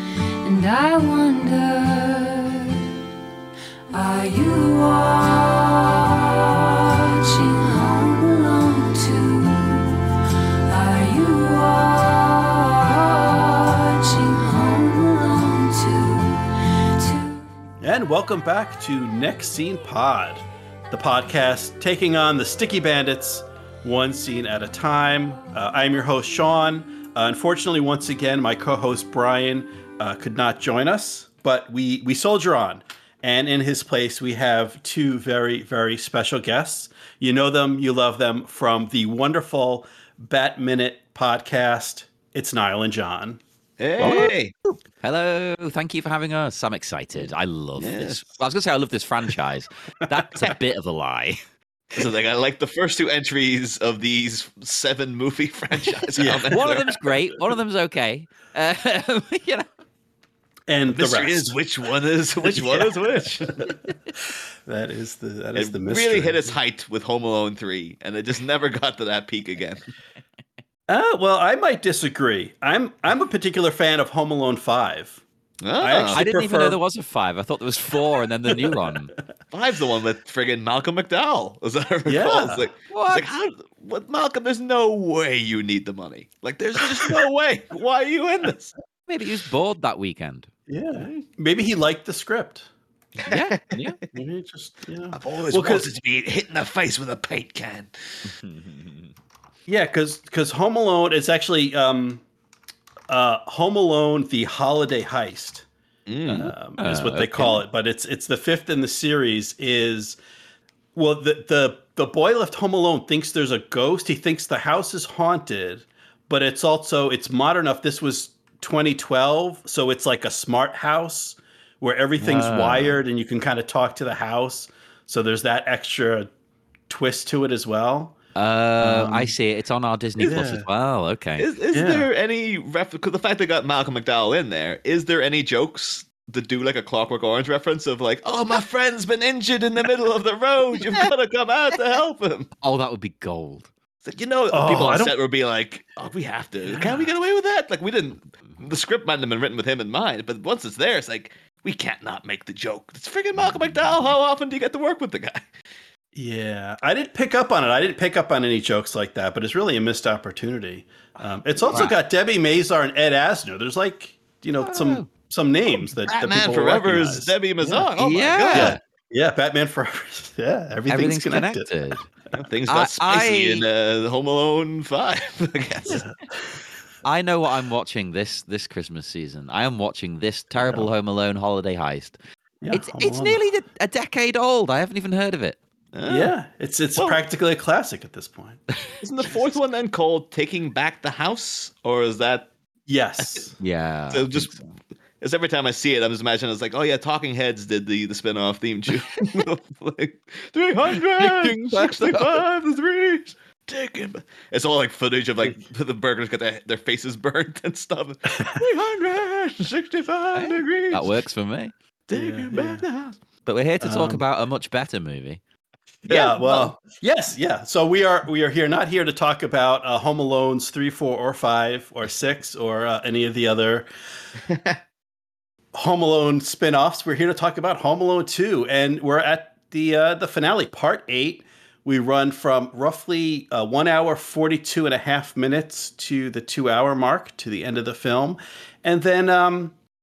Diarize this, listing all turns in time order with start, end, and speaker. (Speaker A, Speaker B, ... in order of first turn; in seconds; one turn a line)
Speaker A: 0.4-2.8
Speaker A: 3.9-10.1
Speaker A: 10.7-17.4
Speaker B: 17.8-43.4
Speaker C: 43.8-44.5
Speaker B: 44.0-44.3
Speaker D: 44.0-44.3
Speaker D: 45.0-51.4
Speaker C: 47.8-48.2
Speaker C: 51.9-57.1
Speaker B: 56.1-56.5
Speaker D: 56.5-59.6
Speaker B: 60.7-61.5
Speaker C: 60.9-63.8
Speaker B: 62.5-62.9
Speaker B: 64.7-66.5
Speaker C: 65.5-69.8
Speaker B: 70.9-75.2
Speaker C: 75.6-76.2
Speaker B: 75.8-76.8
Speaker D: 76.1-79.1
Speaker B: 78.5-78.8
Speaker C: 79.5-88.7
Speaker B: 82.0-82.7
Speaker D: 82.9-83.3
Speaker D: 89.1-90.5
Speaker B: 90.7-92.7
Speaker C: 90.9-91.2
Speaker C: 93.2-93.8
Speaker D: 93.3-94.0
Speaker B: 94.1-95.9
Speaker C: 95.1-98.3
Speaker D: 98.4-99.0
Speaker B: 99.7-102.2
Speaker B: 103.1-105.7
Speaker C: 106.1-106.5
Speaker B: 106.3-110.2
Speaker D: 106.8-107.6
Speaker B: 110.9-126.3
Speaker D: 122.2-123.0
Speaker B: 126.9-128.1
Speaker D: 128.3-131.5
Speaker B: 128.8-129.3
Speaker B: 130.2-130.7
Speaker C: 131.4-142.5
Speaker B: 131.7-132.1
Speaker D: 142.6-143.7
Speaker C: 144.0-155.5
Speaker B: 144.5-145.1
Speaker B: 156.1-167.8
Speaker D: 161.7-161.9
Speaker D: 164.6-165.1
Speaker C: 165.9-168.8
Speaker D: 167.9-168.8
Speaker B: 168.5-171.7
Speaker D: 170.9-172.1
Speaker C: 172.4-176.0
Speaker D: 172.7-173.7
Speaker B: 175.8-176.6
Speaker D: 177.0-182.2
Speaker B: 182.6-183.4
Speaker D: 182.7-185.6
Speaker C: 185.9-186.3
Speaker B: 186.1-188.6
Speaker C: 189.0-192.5
Speaker B: 192.9-193.5
Speaker C: 193.2-193.4
Speaker D: 193.6-194.5
Speaker C: 194.1-194.7
Speaker C: 195.2-211.1
Speaker D: 199.2-199.4
Speaker D: 201.0-202.4
Speaker D: 210.3-211.7
Speaker B: 212.1-212.8
Speaker C: 212.1-213.2
Speaker D: 213.4-215.4
Speaker B: 213.8-214.2
Speaker B: 216.0-223.9
Speaker C: 216.1-216.7
Speaker C: 224.5-224.8
Speaker B: 225.7-239.7